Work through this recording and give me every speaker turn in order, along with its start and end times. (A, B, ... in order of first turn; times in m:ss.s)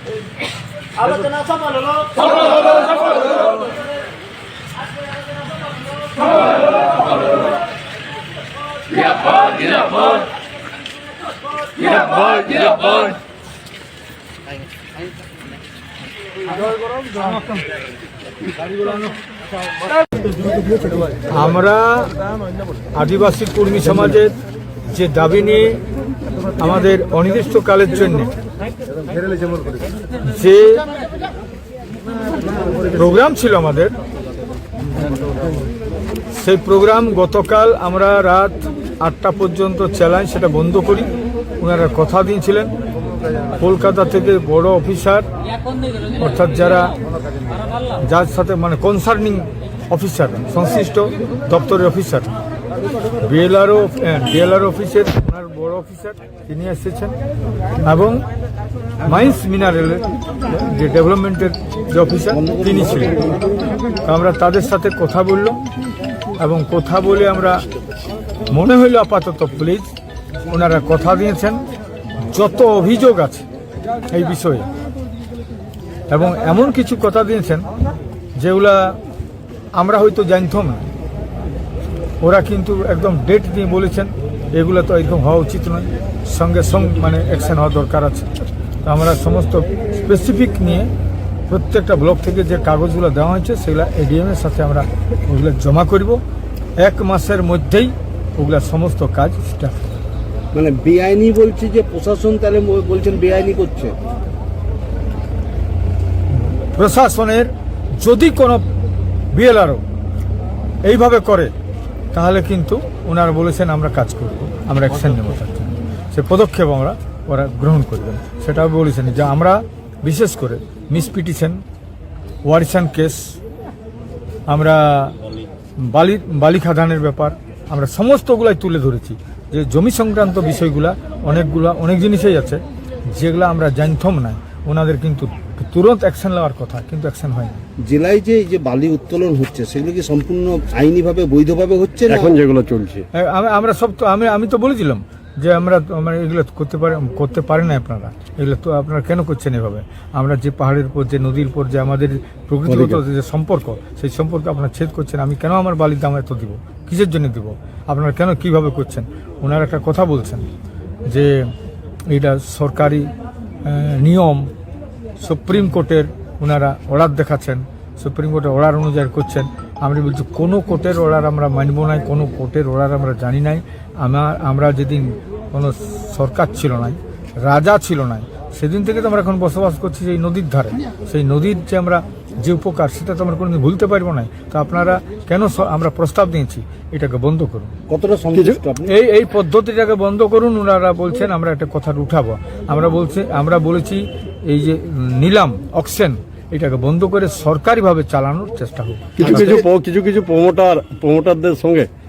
0:01.0-0:04.0 A
0:04.8-0:07.5 A
0:08.8-0:13.1 A
0:21.3-0:22.1 B
0:23.0-0:24.4 B
0:24.9-0:25.8 B
0:26.6-0:28.3 B
0:30.3-0:30.8 B
0:32.9-0:34.0 B
0:36.3-0:42.7 B
0:43.6-0:45.3 B
0:46.2-0:46.9 B
0:48.0-0:52.3 B
0:53.2-0:57.2 B
0:57.8-0:58.3 B
0:59.0-1:03.1 B
1:02.4-1:03.6 C
1:04.0-1:05.6 B
1:06.4-1:07.6 B
1:08.5-1:09.9 B
1:10.5-1:11.6 B
1:12.2-1:13.5 B
1:14.1-1:14.7 B
1:16.1-1:17.7 B
1:18.4-1:19.0 B
1:19.7-1:20.9 B
1:22.2-1:28.3 B
1:28.8-1:30.9 B
1:31.5-1:36.2 B
1:36.8-1:39.9 B
1:40.5-1:44.0 C
1:46.7-1:48.6 B
1:49.3-1:49.8 B
1:50.8-1:51.5 B
1:52.1-2:01.6 B
2:02.5-2:03.4 B
2:04.5-2:05.2 B
2:05.8-2:12.6 B
2:13.1-2:17.6 B
2:17.8-2:22.3 C
2:22.1-2:23.0 D
2:23.1-2:40.5 B
2:32.7-2:33.0 C
2:41.1-2:41.5 B
2:42.1-2:43.1 B
2:43.6-2:44.5 B
2:45.2-3:07.7 B
3:07.9-3:08.9 C
3:08.4-3:08.6 D
3:08.9-3:19.6 B
3:19.2-3:21.9 D